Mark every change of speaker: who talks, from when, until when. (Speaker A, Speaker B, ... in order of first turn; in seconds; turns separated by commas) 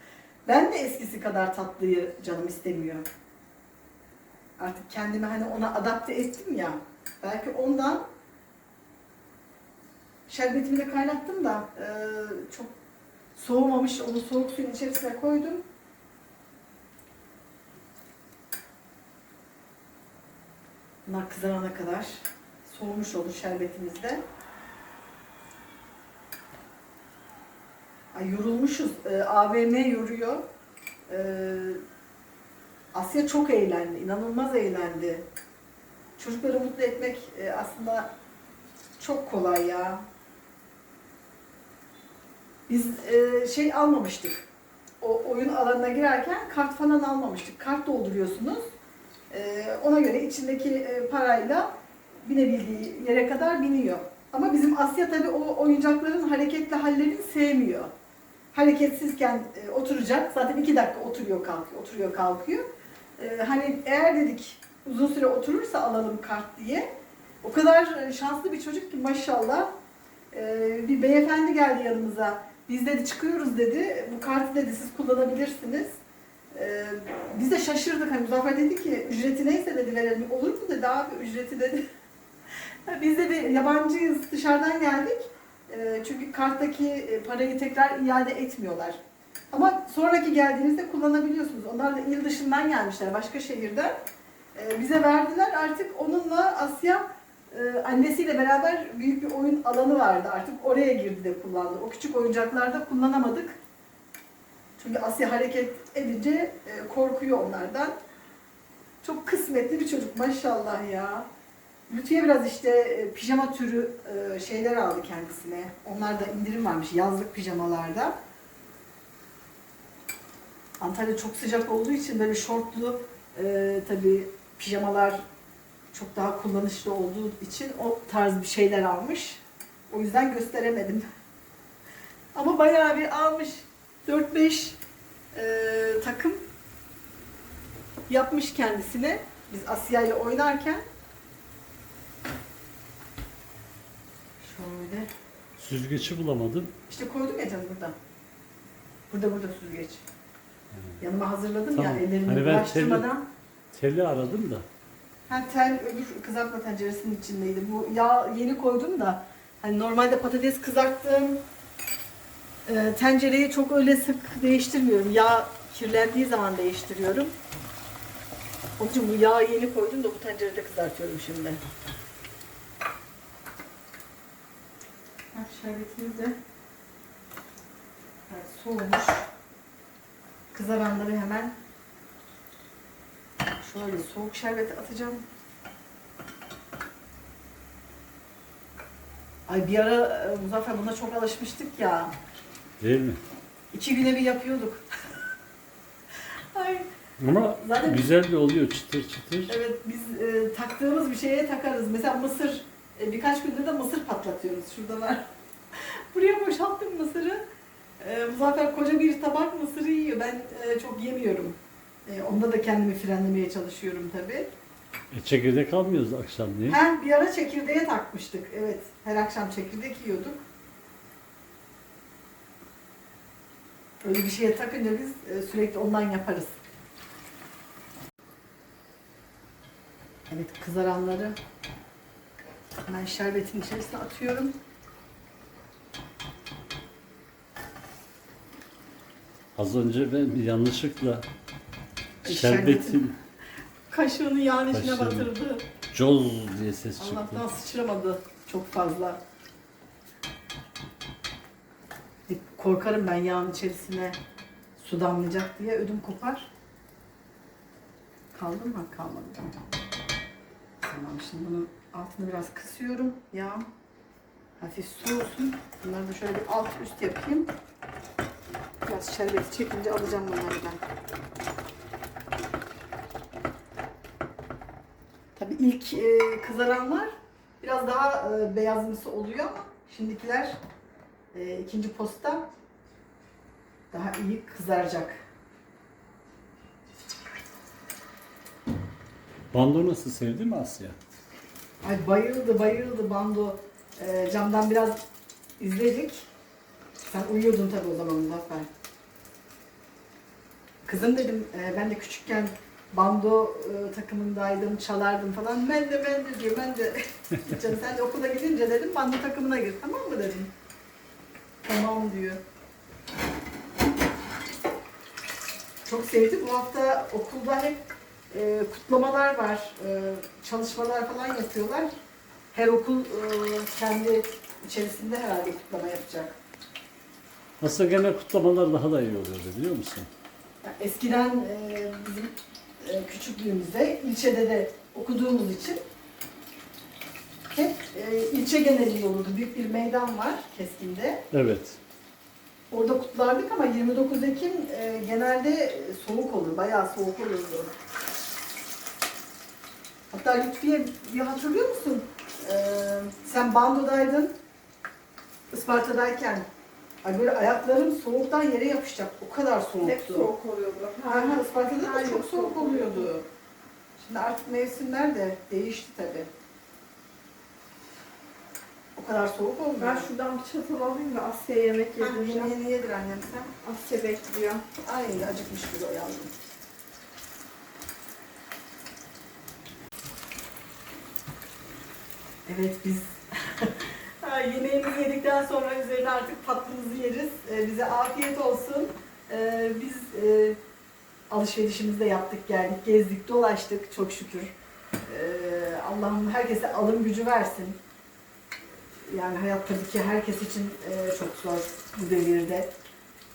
Speaker A: 0.5-3.1, Speaker A: 4.6-8.1, Speaker A: 10.3-12.7, Speaker A: 13.3-15.6, Speaker A: 21.1-24.2, Speaker A: 28.1-30.4, Speaker A: 31.1-31.8, Speaker A: 32.9-35.2, Speaker A: 36.2-38.1, Speaker A: 39.0-40.0, Speaker A: 42.7-44.5, Speaker A: 45.0-48.7, Speaker A: 49.3-57.9, Speaker A: 58.5-62.7, Speaker A: 63.2-66.9, Speaker A: 67.4-69.7, Speaker A: 70.3-76.0, Speaker A: 76.5-81.8, Speaker A: 82.8-94.0, Speaker A: 94.5-103.6, Speaker A: 104.8-108.0, Speaker A: 109.0-111.3, Speaker A: 111.9-118.2, Speaker A: 120.8-125.2, Speaker A: 125.9-131.1, Speaker A: 132.3-134.8, Speaker A: 135.3-136.4, Speaker A: 138.1-140.8, Speaker A: 144.4-145.1, Speaker B: 145.6-146.7, Speaker A: 146.9-147.9, Speaker A: 149.1-150.0, Speaker B: 150.7-151.0, Speaker A: 151.0-153.2, Speaker B: 151.7-153.1, Speaker B: 153.7-154.7, Speaker A: 155.3-161.4, Speaker A: 162.7-167.3, Speaker A: 168.8-171.6, Speaker A: 175.3-176.4, Speaker A: 178.3-179.3, Speaker A: 180.5-181.6, Speaker A: 183.6-185.2, Speaker A: 189.5-192.2, Speaker B: 192.8-193.2, Speaker A: 193.7-194.8, Speaker A: 196.5-196.9, Speaker B: 197.2-199.5, Speaker A: 197.6-198.1, Speaker A: 199.5-207.4, Speaker A: 208.0-214.5, Speaker B: 215.1-216.8, Speaker A: 216.7-220.4, Speaker A: 224.0-226.6, Speaker A: 230.3-231.4, Speaker A: 232.8-234.6, Speaker B: 239.5-241.3, Speaker A: 242.2-243.0, Speaker B: 242.2-243.2, Speaker A: 243.9-245.7, Speaker B: 244.7-245.3, Speaker B: 245.9-247.4, Speaker A: 247.0-249.2, Speaker A: 252.3-254.2, Speaker A: 254.8-256.5, Speaker A: 258.3-259.6, Speaker A: 260.8-263.7, Speaker A: 264.6-267.5, Speaker A: 268.8-270.8, Speaker A: 275.4-280.6, Speaker A: 281.3-282.5, Speaker A: 283.9-285.2, Speaker B: 289.5-291.0, Speaker A: 291.8-295.0, Speaker A: 295.6-296.3, Speaker A: 297.0-298.7, Speaker A: 300.8-310.5, Speaker A: 311.6-312.4, Speaker A: 315.9-321.9, Speaker A: 322.5-326.4, Speaker B: 327.6-330.1, Speaker A: 330.6-335.8, Speaker A: 337.5-341.2, Speaker B: 341.3-341.8, Speaker A: 342.7-347.7, Speaker A: 350.1-354.3, Speaker A: 355.5-356.5, Speaker A: 357.0-360.3, Speaker C: 359.8-363.1, Speaker A: 361.1-363.3, Speaker A: 364.0-366.3, Speaker A: 368.9-370.1, Speaker C: 369.8-372.5, Speaker A: 372.0-373.5, Speaker C: 373.6-374.6, Speaker A: 374.8-376.3, Speaker A: 382.4-390.6, Speaker A: 391.3-394.5, Speaker A: 395.1-397.8, Speaker A: 399.1-402.7